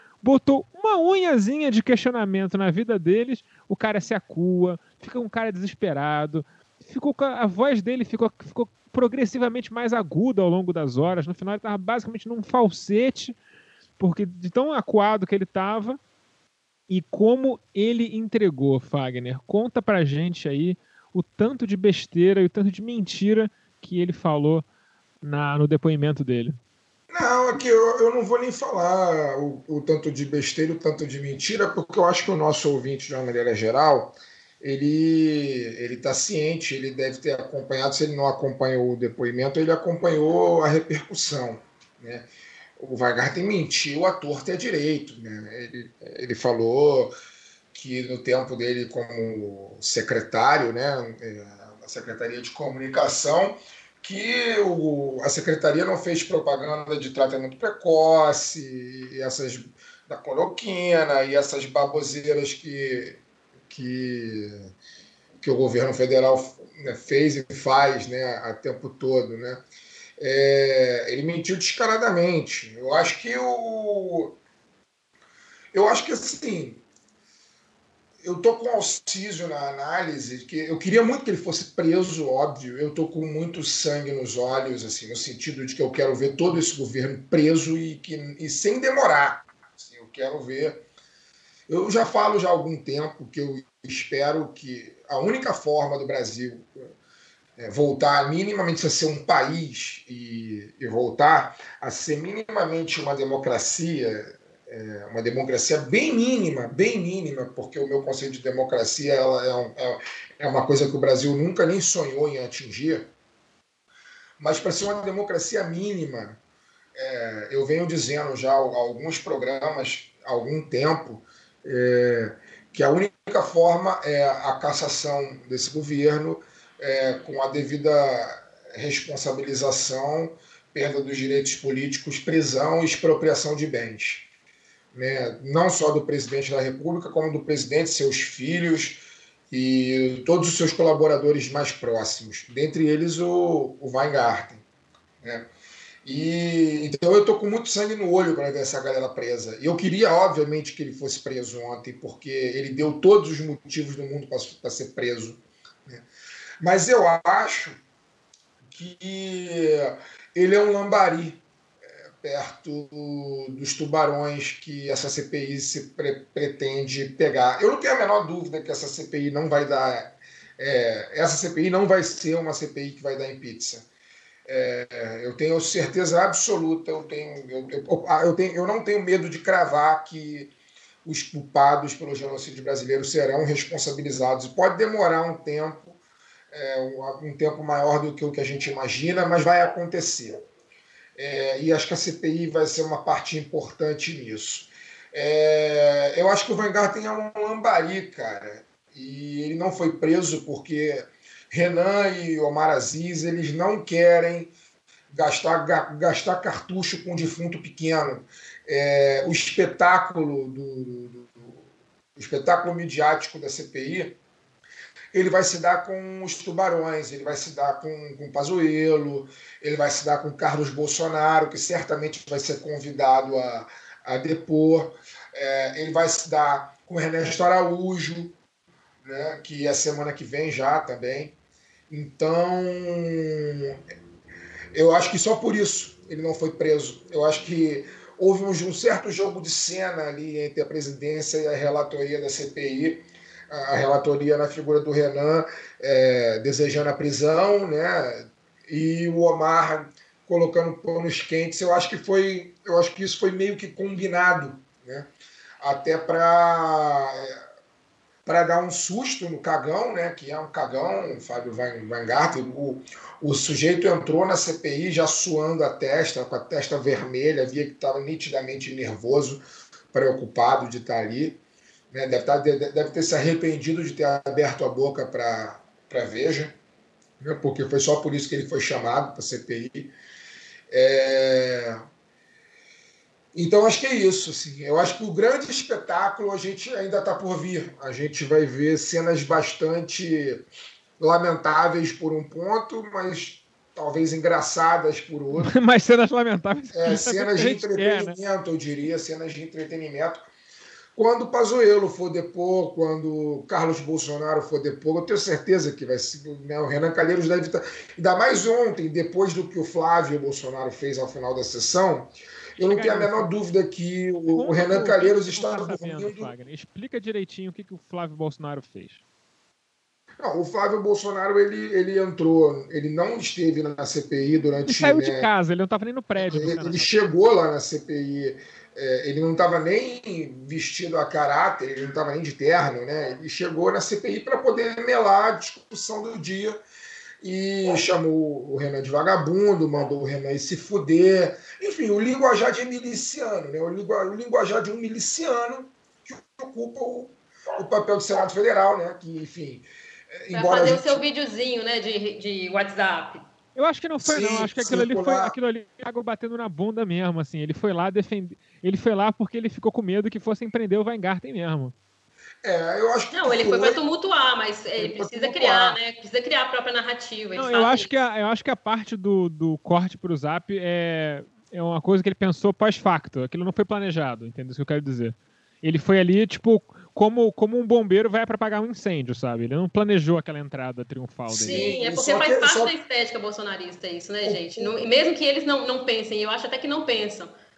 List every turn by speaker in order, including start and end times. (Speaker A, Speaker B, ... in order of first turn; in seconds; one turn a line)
Speaker A: 0.2-13.3
Speaker A: 14.0-16.0
Speaker A: 16.9-24.6
Speaker A: 25.2-26.6
Speaker B: 27.1-47.1
Speaker B: 47.7-64.7
Speaker B: 65.4-69.6
Speaker B: 70.2-74.3
Speaker B: 75.7-76.8
Speaker B: 78.2-90.8
Speaker B: 91.7-96.9
Speaker B: 97.6-113.1
Speaker B: 114.4-116.4
Speaker B: 117.0-134.3
Speaker B: 134.9-144.6
Speaker B: 145.2-145.5
Speaker B: 146.0-156.1
Speaker B: 156.6-157.8
Speaker B: 158.6-161.4
Speaker B: 162.2-173.9
Speaker B: 174.5-180.5
Speaker B: 181.0-186.0
Speaker B: 186.5-190.4
Speaker B: 191.2-204.5
Speaker B: 205.1-211.6
Speaker B: 212.2-214.2
Speaker B: 215.1-228.3
Speaker B: 229.0-231.3
Speaker B: 231.9-233.8
Speaker B: 234.7-255.1
Speaker B: 255.6-257.4
Speaker B: 258.2-271.4
Speaker B: 271.9-276.6
Speaker B: 277.2-279.9
Speaker B: 280.7-281.8
Speaker B: 283.3-290.4
Speaker B: 291.0-295.5
Speaker A: 295.4-298.1
Speaker B: 296.7-300.3
Speaker B: 300.9-316.3
Speaker A: 312.6-313.3
Speaker A: 314.3-319.0
Speaker B: 320.2-325.3
Speaker A: 324.7-326.9
Speaker B: 326.2-336.6
Speaker B: 337.2-351.0
Speaker C: 350.3-353.2
Speaker A: 353.6-361.7
Speaker B: 354.0-355.3
Speaker B: 362.4-363.8
Speaker C: 363.1-367.9
Speaker B: 364.8-365.8
Speaker A: 367.4-381.7
Speaker B: 381.3-382.7
Speaker C: 381.4-387.3
Speaker B: 384.2-384.7